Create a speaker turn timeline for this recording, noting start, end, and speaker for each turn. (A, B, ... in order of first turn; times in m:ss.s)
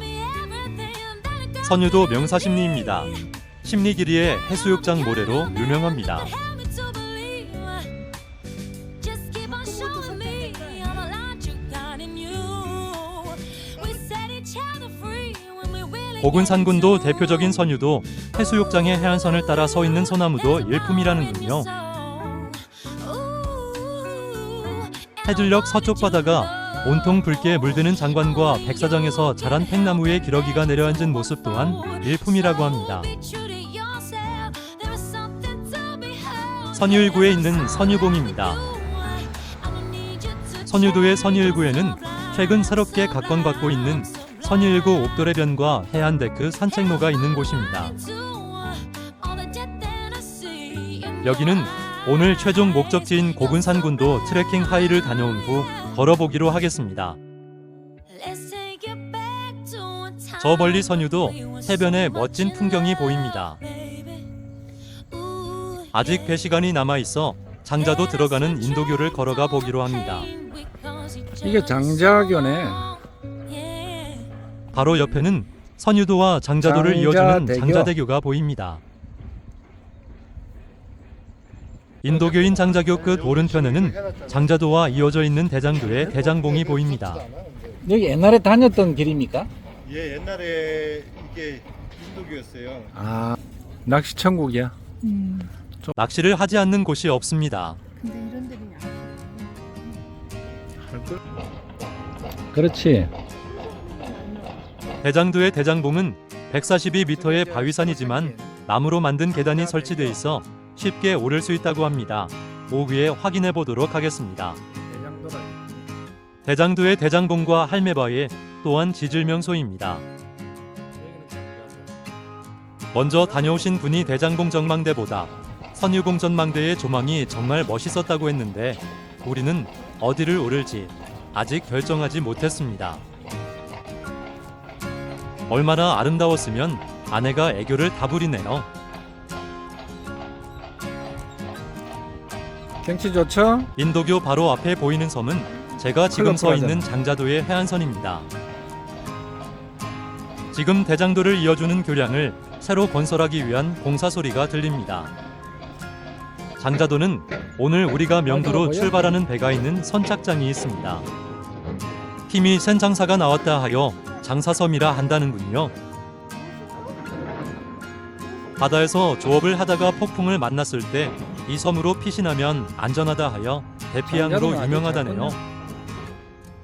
0:01.6-0:06.3 A
0:09.4-0:11.2 B
0:13.7-0:14.1 B
0:16.2-0:21.7 A
0:25.2-0:33.1 A
0:36.7-0:38.7 A
0:40.6-0:48.0 A
0:51.2-0:57.2 A
1:00.4-1:03.6 A
1:05.9-1:10.3 A
1:11.4-1:13.0 C
1:14.7-1:18.8 A
1:16.6-1:17.9 C
1:22.0-1:27.2 A
1:22.1-1:24.8 D
1:26.0-1:27.7 D
1:27.8-1:29.5 C
1:29.8-1:32.9 D
1:32.9-1:34.8 C
1:35.0-1:35.5 B
1:35.9-1:37.8 A
1:38.0-1:40.0 B
1:40.8-1:41.2 C
1:42.5-1:43.1 C
1:43.4-1:44.6 B
1:45.0-1:54.6 A
1:47.0-1:48.6 C
1:49.4-1:50.2 C
1:54.7-1:55.9 C
1:56.4-2:00.0 A
2:01.0-2:01.9 C
2:02.9-2:13.0 A
2:03.0-2:03.7 C
2:15.5-2:18.7 A
2:22.8-2:23.7 C
2:23.8-2:28.3 A
2:25.5-2:25.9 B
2:26.1-2:26.8 C
2:30.5-2:35.1 A
2:36.6-2:41.1 A
2:38.2-2:39.1 C
2:42.3-2:45.7 A
2:44.0-2:44.3 B
2:46.3-2:47.4 B
2:48.2-2:48.9 B
2:48.6-2:55.4 A
2:54.1-2:55.4 C